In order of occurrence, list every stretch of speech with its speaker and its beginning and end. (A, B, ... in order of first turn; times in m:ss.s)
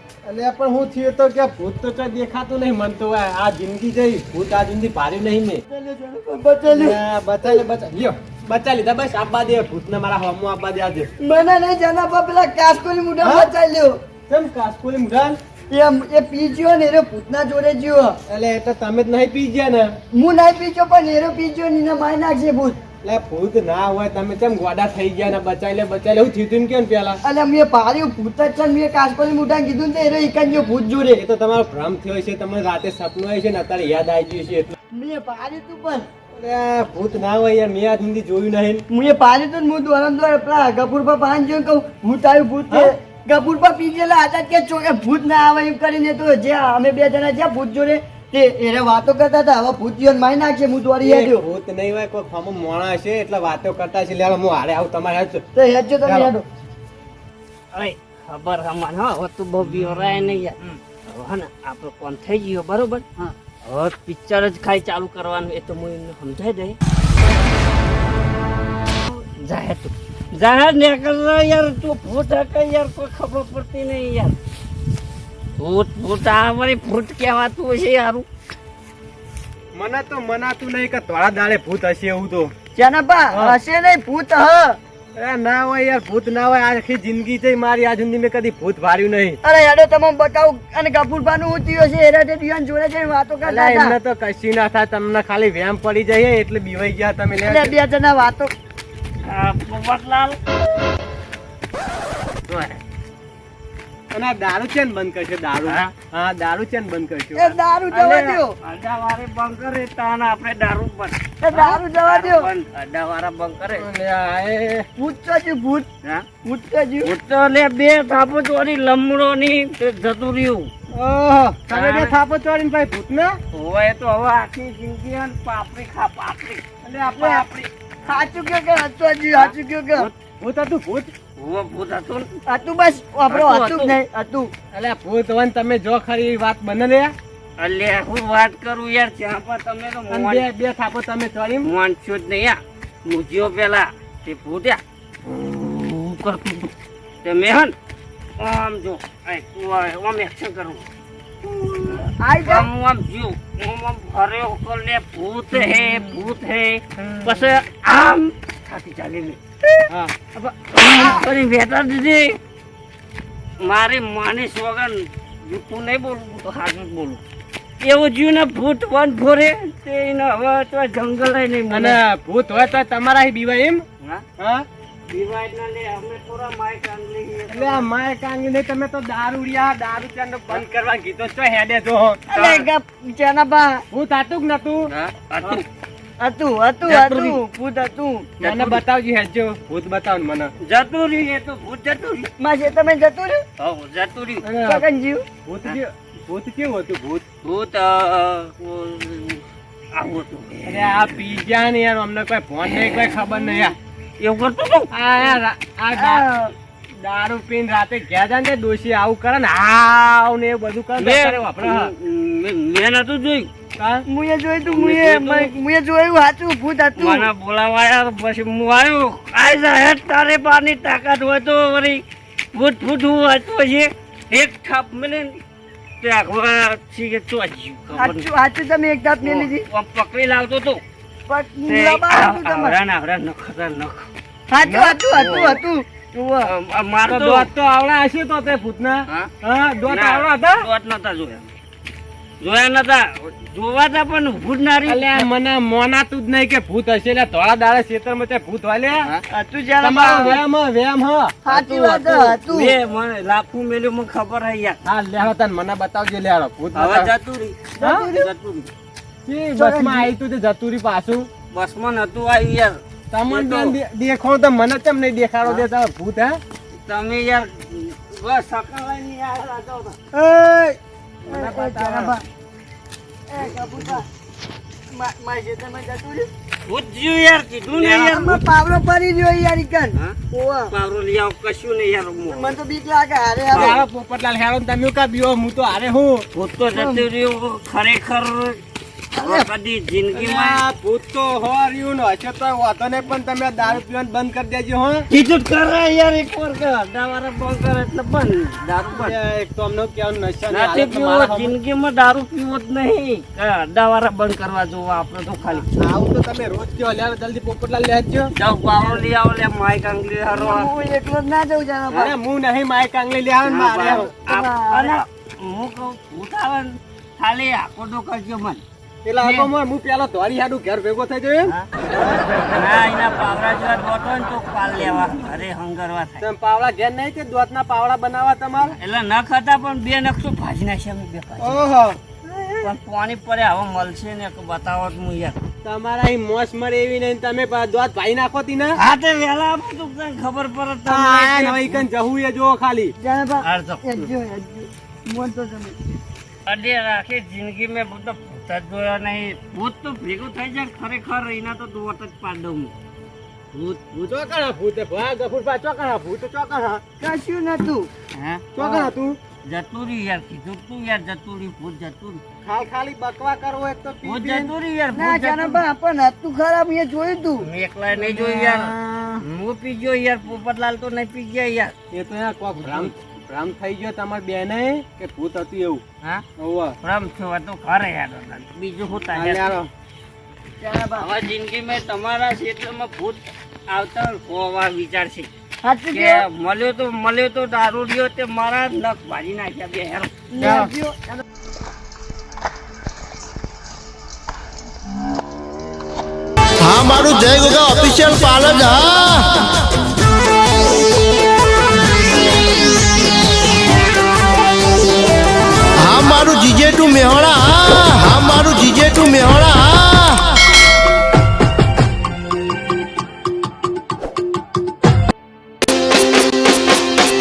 0:00.2-0:05.6 A
0:05.7-0:07.0 B
0:06.6-0:11.1 A
0:11.2-0:13.9 B
0:13.2-0:13.5 A
0:14.3-0:15.4 A
0:15.7-0:18.2 B
0:18.3-0:19.9 A
0:20.1-0:22.8 B
0:23.0-0:27.2 A
0:27.2-0:31.2 B
0:31.1-0:34.7 A
0:34.9-0:36.0 B
0:36.4-0:38.8 A
0:38.9-0:51.4 B
0:51.0-0:55.4 A
0:55.6-0:56.4 B
0:56.0-0:56.3 A
0:57.7-1:03.0 C
1:03.6-1:06.8 C
1:09.1-1:14.4 C
1:15.6-1:18.2 C
1:19.7-1:22.5 A
1:22.8-1:24.8 B
1:23.3-1:23.6 A
1:25.1-1:29.4 A
1:29.4-1:34.0 B
1:33.4-1:37.7 A
1:37.4-1:38.5 B
1:39.2-1:40.4 C
1:44.1-1:47.5 A
1:45.6-1:45.9 C
1:47.3-1:48.5 B
1:47.9-1:53.9 C
1:51.4-1:52.5 B
1:53.7-1:54.9 A
1:55.0-1:55.8 B
1:56.4-1:57.1 B
1:57.0-2:00.7 C
2:00.9-2:03.4 A
2:01.7-2:02.2 C
2:03.5-2:06.6 C
2:06.8-2:07.7 A
2:07.1-2:07.4 B
2:08.1-2:10.1 B
2:09.3-2:10.1 C
2:10.4-2:11.1 A
2:11.4-2:12.3 C
2:12.5-2:14.5 B
2:13.3-2:13.9 C
2:14.7-2:17.1 A
2:17.6-2:20.4 C
2:20.1-2:21.7 A
2:21.6-2:27.7 C
2:28.4-2:30.8 C
2:31.8-2:39.4 C
2:32.2-2:32.7 B
2:37.0-2:37.2 A
2:39.9-2:40.3 A
2:40.6-2:42.4 C
2:43.6-2:47.2 C
2:47.8-2:52.0 C
2:51.7-2:53.8 A
2:54.4-2:54.6 A
2:55.1-2:57.8 C
2:57.5-3:02.3 A
3:02.3-3:03.8 B
3:02.3-3:02.7 C
3:03.9-3:04.9 A
3:04.9-3:05.6 C
3:06.2-3:08.8 B
3:06.8-3:07.4 A
3:08.4-3:10.5 A
3:10.6-3:12.3 C
3:12.4-3:13.4 B
3:13.6-3:14.5 C
3:14.4-3:14.8 A
3:14.6-3:15.2 B
3:15.4-3:17.2 A
3:17.4-3:20.9 C
3:20.6-3:23.8 A
3:24.2-3:24.9 C
3:24.9-3:26.2 A
3:25.9-3:26.5 B
3:27.0-3:31.9 A
3:31.0-3:33.5 C
3:33.8-3:34.0 A
3:34.1-3:37.3 B
3:34.6-3:35.5 C
3:37.0-3:42.0 C
3:42.5-3:45.4 C
3:46.0-3:48.3 C
3:47.9-3:49.6 B
3:49.2-3:50.8 C
3:51.3-3:52.8 B
3:51.7-3:54.1 C
3:54.5-3:56.5 B
3:54.6-3:55.6 A
3:55.2-3:55.5 C
3:56.4-3:57.5 C
3:57.1-4:00.7 A
3:59.8-4:01.5 C
4:02.4-4:05.2 C
4:04.8-4:09.0 A
4:09.3-4:10.4 B
4:09.8-4:11.5 A
4:11.4-4:12.8 B
4:11.5-4:14.8 C
4:14.8-4:17.1 A
4:16.7-4:18.7 C
4:17.8-4:18.3 B
4:17.8-4:18.1 A
4:19.2-4:21.3 A
4:19.5-4:20.1 B
4:21.5-4:23.8 C
4:23.1-4:26.4 A
4:26.7-4:30.0 C
4:30.1-4:32.2 B
4:31.3-4:32.1 C
4:33.3-4:34.0 B
4:34.9-4:36.3 B
4:36.6-4:38.4 C
4:37.7-4:40.7 B
4:40.7-4:42.6 C
4:42.3-4:43.8 B
4:43.5-4:46.2 A
4:43.5-4:43.8 C
4:46.3-4:48.6 C
4:46.7-4:47.0 B
4:49.2-4:49.5 B
4:49.2-4:50.6 C
4:50.1-4:55.0 A
4:55.1-4:59.2 C
4:58.8-5:01.5 A
5:00.5-5:05.6 C
5:05.8-5:08.8 A
5:08.3-5:10.7 C
5:10.3-5:12.1 B
5:12.0-5:14.1 A
5:13.4-5:18.6 C
5:13.8-5:14.9 B
5:19.0-5:22.0 A
5:19.2-5:19.5 C
5:22.4-5:26.2 C
5:26.2-5:28.8 A
5:28.8-5:31.6 C
5:31.4-5:32.6 A
5:32.6-5:35.4 C
5:35.6-5:38.8 A
5:38.8-5:41.9 C
5:40.8-5:42.9 A
5:43.0-5:45.8 B
5:43.4-5:43.8 C
5:46.4-5:52.7 C
5:53.5-5:54.1 C
5:54.0-5:56.8 A
5:57.0-5:57.9 B
5:58.1-5:58.9 C
5:58.5-5:59.2 A
5:59.4-6:02.2 C
6:02.4-6:04.5 A
6:04.0-6:05.6 C
6:04.9-6:07.5 B
6:07.4-6:11.7 C
6:07.9-6:09.2 A
6:11.9-6:15.8 A
6:12.6-6:12.9 C
6:16.4-6:16.8 A
6:16.8-6:19.6 C
6:19.1-6:19.7 A
6:20.6-6:21.1 B
6:21.0-6:25.3 C
6:25.6-6:26.2 B
6:25.9-6:30.1 C
6:30.3-6:31.2 B
6:30.4-6:30.7 A
6:37.0-6:39.0 B
6:46.8-6:49.9 D